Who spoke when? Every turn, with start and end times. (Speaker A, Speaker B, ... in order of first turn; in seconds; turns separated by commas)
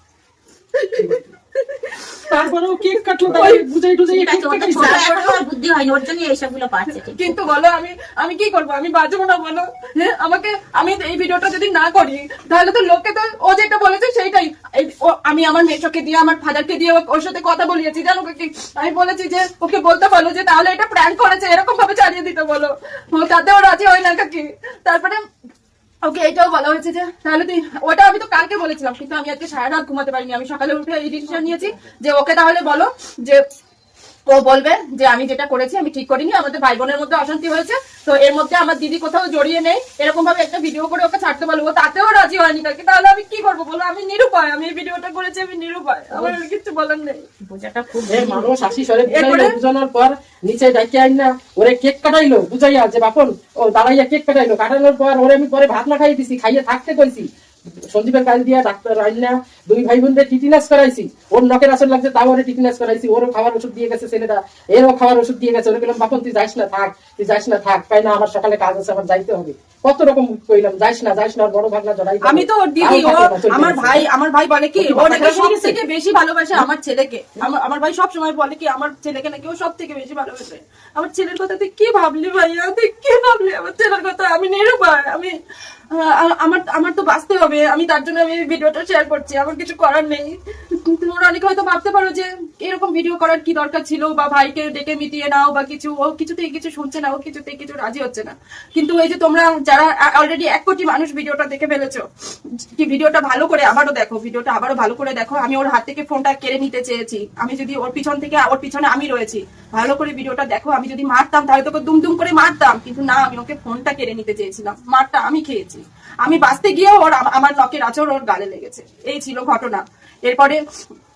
Speaker A: 0.8-2.5, Speaker B: 2.3-5.2, Speaker A: 3.2-3.6, Speaker C: 4.1-7.3, Speaker A: 4.7-5.4, Speaker A: 7.0-25.2, Speaker A: 26.0-33.4, Speaker A: 34.3-47.2, Speaker C: 47.4-48.8, Speaker B: 48.1-57.3, Speaker A: 49.1-49.5, Speaker B: 57.9-74.0, Speaker A: 72.2-85.3, Speaker B: 74.8-75.8, Speaker A: 85.9-102.0, Speaker A: 102.6-120.6